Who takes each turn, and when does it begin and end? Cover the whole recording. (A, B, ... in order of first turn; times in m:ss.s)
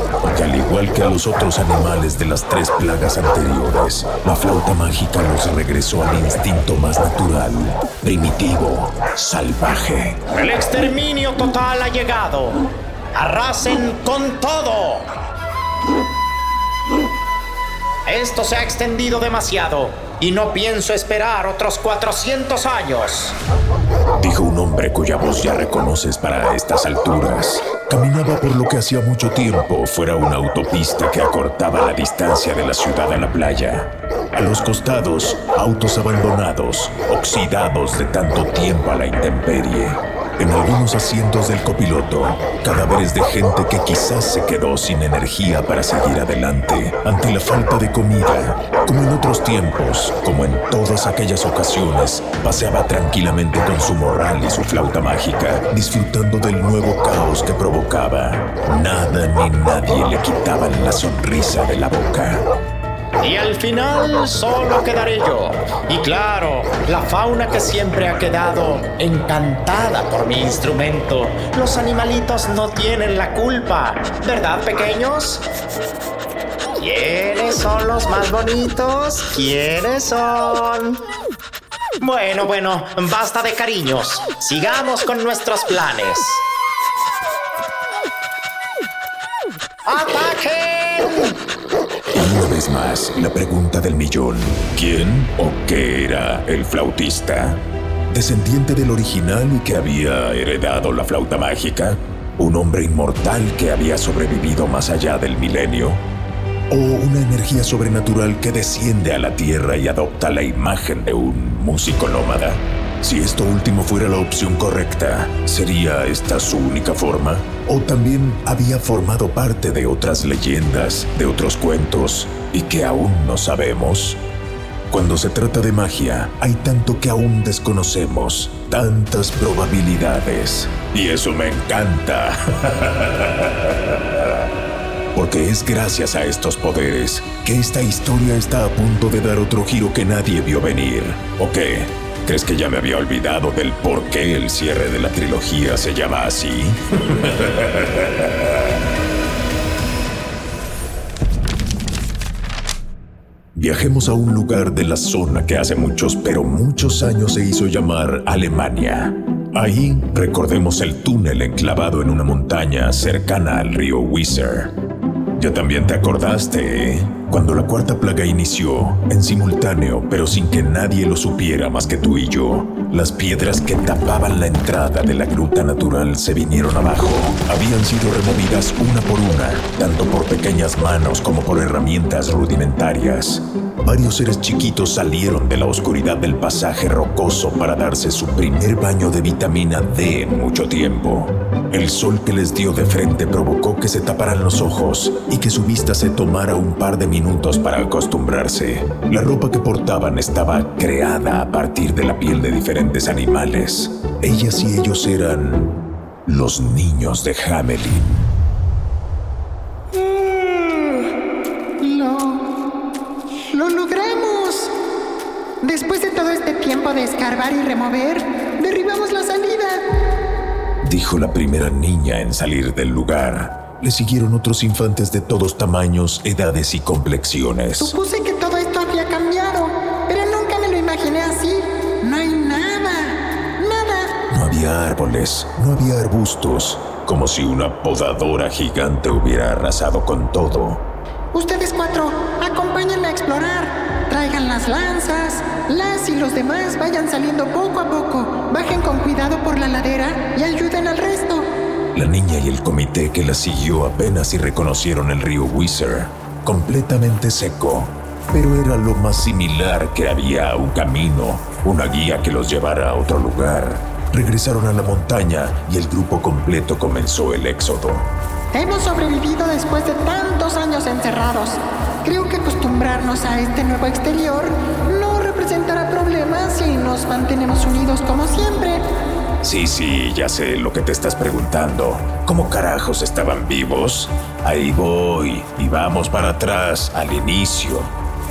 0:00.2-0:10.2 A
0:10.3-0:12.6 B
0:13.1-0:15.1 B
0:18.0-0:23.4 B
0:24.2-1:02.4 A
1:03.2-1:15.4 B
1:16.8-1:21.0 B
1:22.0-1:26.4 B
1:29.8-1:31.4 B
1:32.1-1:46.0 A
1:46.7-2:04.2 A
2:04.9-2:14.3 A
2:15.1-2:28.6 A
2:33.5-2:44.7 A
2:45.4-3:28.3 A
3:31.8-3:32.5 C
3:33.5-3:34.7 C
3:35.6-3:39.8 C
3:40.8-3:48.0 A
3:47.8-3:54.1 C
3:54.3-4:00.8 A
4:01.3-4:11.5 C
4:11.9-4:28.1 A
4:28.5-4:38.8 C
4:39.4-4:47.9 A